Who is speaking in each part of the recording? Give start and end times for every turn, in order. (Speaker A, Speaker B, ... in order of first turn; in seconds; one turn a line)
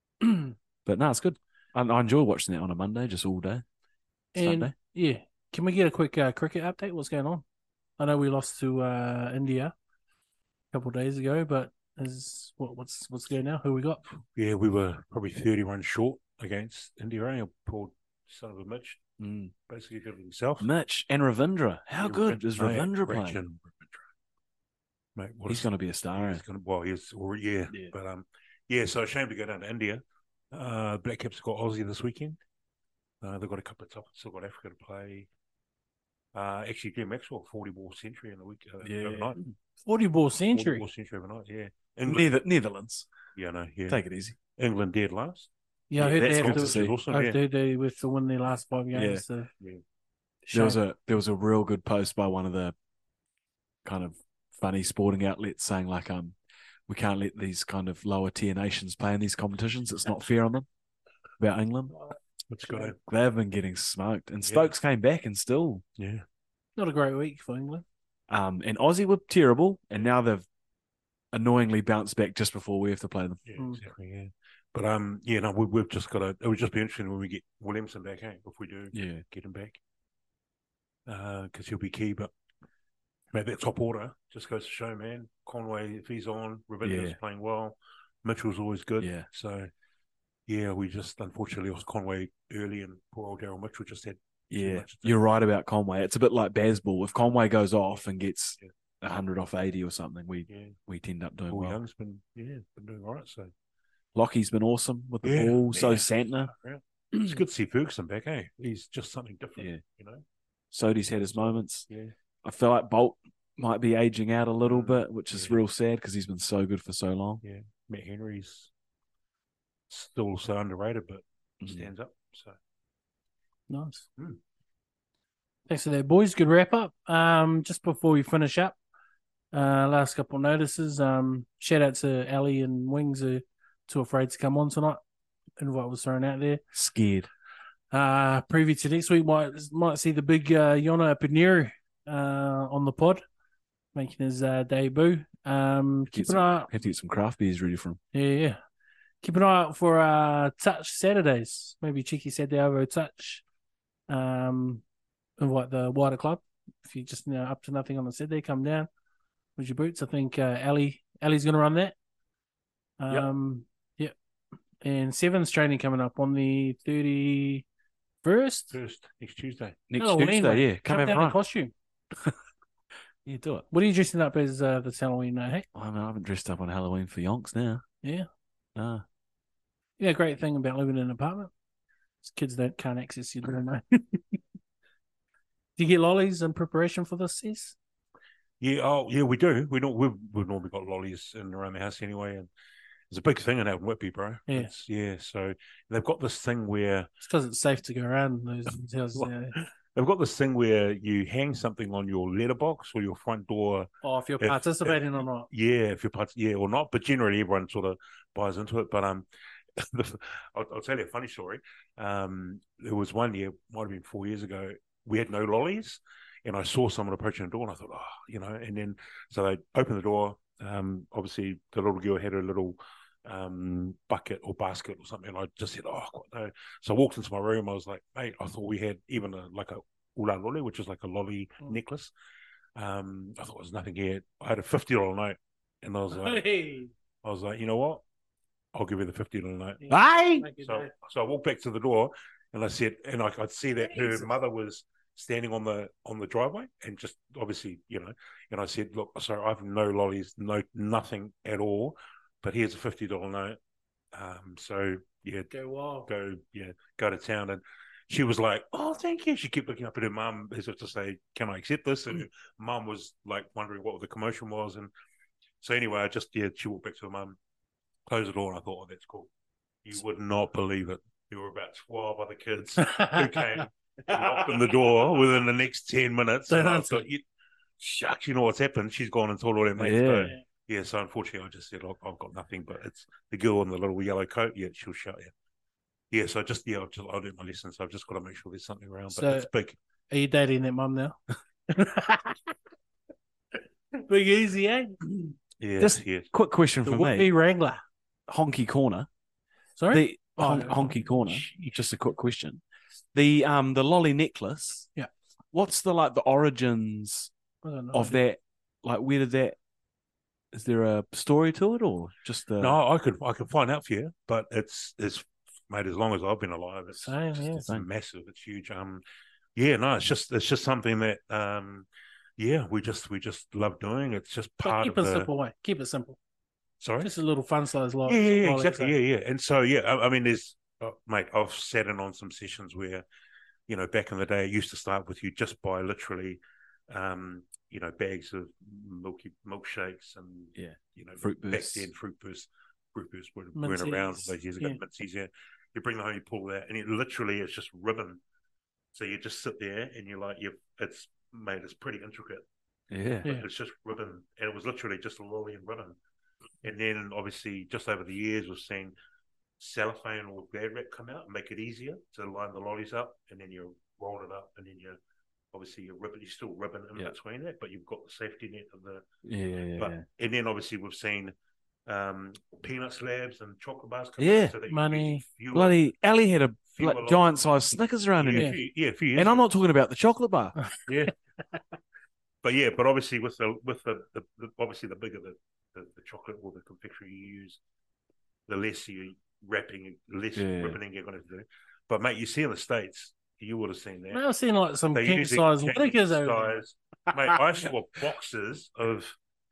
Speaker A: 0.2-0.5
Speaker B: 0.8-3.6
Speaker B: 4.3-4.7
Speaker A: 4.3-7.4
Speaker A: 8.0-9.7
Speaker A: 10.7-14.0
Speaker C: 14.3-19.0
Speaker B: 19.2-19.5
Speaker C: 19.7-20.7
Speaker B: 20.6-23.4
Speaker C: 22.0-24.0
Speaker C: 25.2-32.4
Speaker B: 25.5-26.4
Speaker C: 33.2-35.3
Speaker C: 36.3-39.4
Speaker B: 38.8-39.5
Speaker A: 39.9-40.8
Speaker C: 40.5-42.3
Speaker B: 42.1-43.1
Speaker C: 43.4-44.0
Speaker B: 43.9-44.4
Speaker C: 44.6-45.5
Speaker A: 45.9-49.5
Speaker B: 46.0-47.0
Speaker C: 46.1-47.4
Speaker B: 48.9-49.2
Speaker A: 50.5-50.8
Speaker B: 50.5-52.8
Speaker B: 53.9-56.4
Speaker B: 56.9-60.7
Speaker B: 61.4-61.9
Speaker C: 62.5-63.0
Speaker B: 62.9-65.8
Speaker C: 64.5-64.7
Speaker C: 66.0-66.2
Speaker A: 66.8-67.8
Speaker B: 68.3-70.5
Speaker B: 71.3-73.4
Speaker C: 73.5-79.8
Speaker B: 78.9-79.2
Speaker C: 81.1-82.3
Speaker C: 83.3-89.7
Speaker B: 86.8-87.2
Speaker B: 89.0-89.3
Speaker C: 90.5-95.2
Speaker B: 94.5-101.8
Speaker C: 100.5-100.8
Speaker C: 101.5-103.5
Speaker B: 104.2-106.5
Speaker C: 105.2-110.2
Speaker B: 110.7-111.9
Speaker C: 111.3-112.1
Speaker B: 112.4-117.4
Speaker C: 114.6-115.6
Speaker C: 117.4-118.7
Speaker C: 119.9-122.6
Speaker B: 121.6-121.9
Speaker A: 123.7-124.1
Speaker A: 125.7-128.8
Speaker A: 129.5-135.0
Speaker A: 135.6-136.6
Speaker B: 136.7-137.3
Speaker A: 137.9-143.2
Speaker A: 143.9-146.7
Speaker B: 146.1-148.0
Speaker A: 148.1-148.6
Speaker A: 149.2-153.4
Speaker A: 154.1-154.8
Speaker A: 155.4-158.9
Speaker A: 159.6-161.9
Speaker A: 163.0-164.1
Speaker A: 164.8-167.7
Speaker A: 168.2-168.7
Speaker C: 168.7-169.8
Speaker B: 169.9-171.4
Speaker A: 170.0-171.7
Speaker B: 173.2-173.7
Speaker A: 173.7-175.7
Speaker B: 175.7-177.8
Speaker B: 178.8-179.0
Speaker A: 180.0-181.5
Speaker A: 182.2-184.4
Speaker A: 185.8-187.8
Speaker C: 188.6-192.5
Speaker C: 193.1-197.1
Speaker A: 197.2-199.6
Speaker C: 199.2-209.3
Speaker A: 204.0-205.5
Speaker C: 209.8-232.1
Speaker C: 232.8-236.4
Speaker A: 236.1-236.9
Speaker C: 237.2-238.0
Speaker C: 238.7-239.8
Speaker A: 239.8-240.9
Speaker B: 239.9-240.5
Speaker C: 240.6-253.6
Speaker A: 243.9-244.3
Speaker C: 254.1-255.5
Speaker A: 255.5-256.1
Speaker C: 256.1-264.9
Speaker C: 265.6-267.4
Speaker C: 268.1-269.3
Speaker C: 269.9-277.2
Speaker A: 272.8-273.4
Speaker B: 274.1-274.4
Speaker A: 276.5-277.1
Speaker C: 277.8-285.3
Speaker B: 279.8-280.4
Speaker C: 286.1-289.8
Speaker A: 289.1-289.5
Speaker A: 290.1-291.2
Speaker A: 291.7-292.5
Speaker A: 294.0-295.3
Speaker C: 295.6-296.3
Speaker B: 295.8-297.3
Speaker A: 296.8-297.8
Speaker B: 298.3-299.1
Speaker A: 299.8-300.9
Speaker B: 299.9-302.6
Speaker C: 301.2-301.6
Speaker B: 303.1-304.9
Speaker B: 305.5-307.3
Speaker A: 307.6-308.2
Speaker B: 307.9-309.6
Speaker B: 310.5-312.8
Speaker C: 312.6-319.0
Speaker A: 316.9-317.7
Speaker C: 319.6-321.9
Speaker C: 322.4-325.3
Speaker A: 324.6-326.2
Speaker C: 326.8-327.1
Speaker A: 327.0-328.9
Speaker C: 328.1-333.1
Speaker C: 333.7-348.2
Speaker B: 340.6-341.9
Speaker A: 343.6-344.8
Speaker C: 348.9-352.4
Speaker B: 352.9-353.3
Speaker C: 353.2-356.0
Speaker C: 356.6-358.9
Speaker C: 359.6-365.0
Speaker C: 365.5-369.1
Speaker B: 369.2-370.1
Speaker C: 369.8-371.3
Speaker C: 371.9-375.8
Speaker B: 374.2-374.6
Speaker A: 374.7-375.2
Speaker B: 375.5-378.6
Speaker C: 376.7-377.4
Speaker C: 378.2-379.4
Speaker B: 379.1-380.6
Speaker C: 380.9-381.1
Speaker C: 382.4-387.6
Speaker C: 388.5-394.2
Speaker B: 390.4-390.8
Speaker A: 394.1-396.6
Speaker C: 394.9-399.1